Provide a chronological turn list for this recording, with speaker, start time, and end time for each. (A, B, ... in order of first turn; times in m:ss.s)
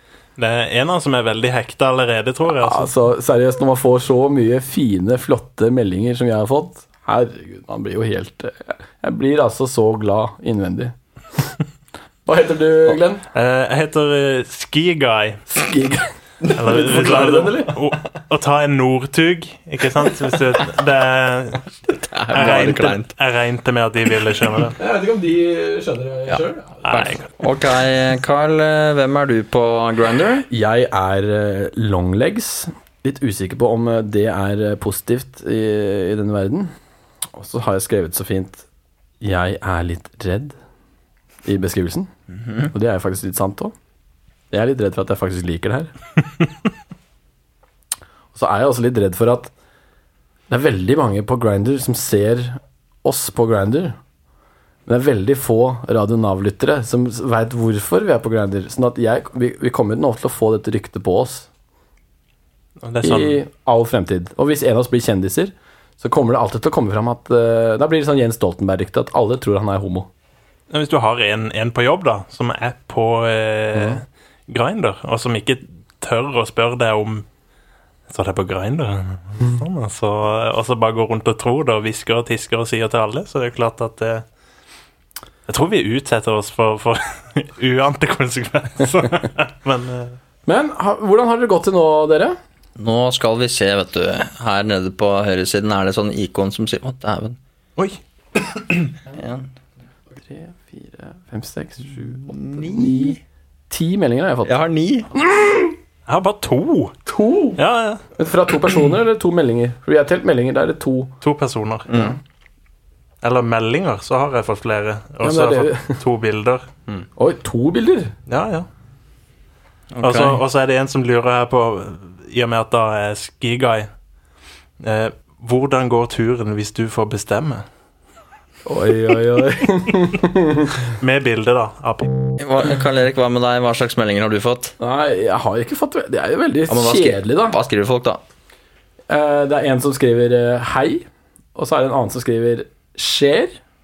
0:00.4-0:02.9 A
0:02.5-0:11.6 B
0:12.3-0:13.2 B
0:13.3-0:15.4 A
0:15.5-0:17.8 B
0:16.6-0:21.6 A
0:21.9-0:23.1 C
0:22.3-0:24.8 A
0:24.8-0:26.9 B
0:26.3-0:30.5 C
0:26.8-0:27.3 A
0:30.5-0:36.7 B
0:37.3-0:38.7 B
0:39.2-0:40.6 B
0:41.4-0:42.1 B
0:42.7-0:43.7 B
0:44.5-0:45.9 B
0:48.3-0:49.5 B
0:50.5-0:54.0 B
0:54.9-1:01.5 B
1:02.8-1:03.4 A
1:03.0-1:10.1 B
1:10.7-1:17.3 A
1:18.1-1:24.2 A
1:25.5-1:30.2 A
1:30.5-1:32.4 B
1:32.8-1:37.4 C
1:39.1-1:39.5 C
1:40.1-1:43.2 B
1:42.3-1:43.2 C
1:43.7-1:44.6 B
1:44.4-1:45.1 C
1:45.2-1:45.7 B
1:46.1-1:46.9 A
1:47.1-1:47.6 B
1:47.6-1:48.0 A
1:48.2-1:51.1 B
1:51.2-1:51.9 A
1:51.9-1:52.2 C
1:53.2-1:56.7 A
1:55.2-1:56.0 B
1:57.2-1:58.1 B
1:58.3-1:58.7 A
1:59.9-2:00.4 C
2:00.0-2:03.9 A
2:04.8-2:07.6 A
2:08.7-2:10.8 B
2:11.0-2:12.2 A
2:12.4-2:14.8 C
2:14.8-2:17.6 B
2:16.7-2:18.2 C
2:19.1-2:21.0 B
2:21.6-2:23.6 B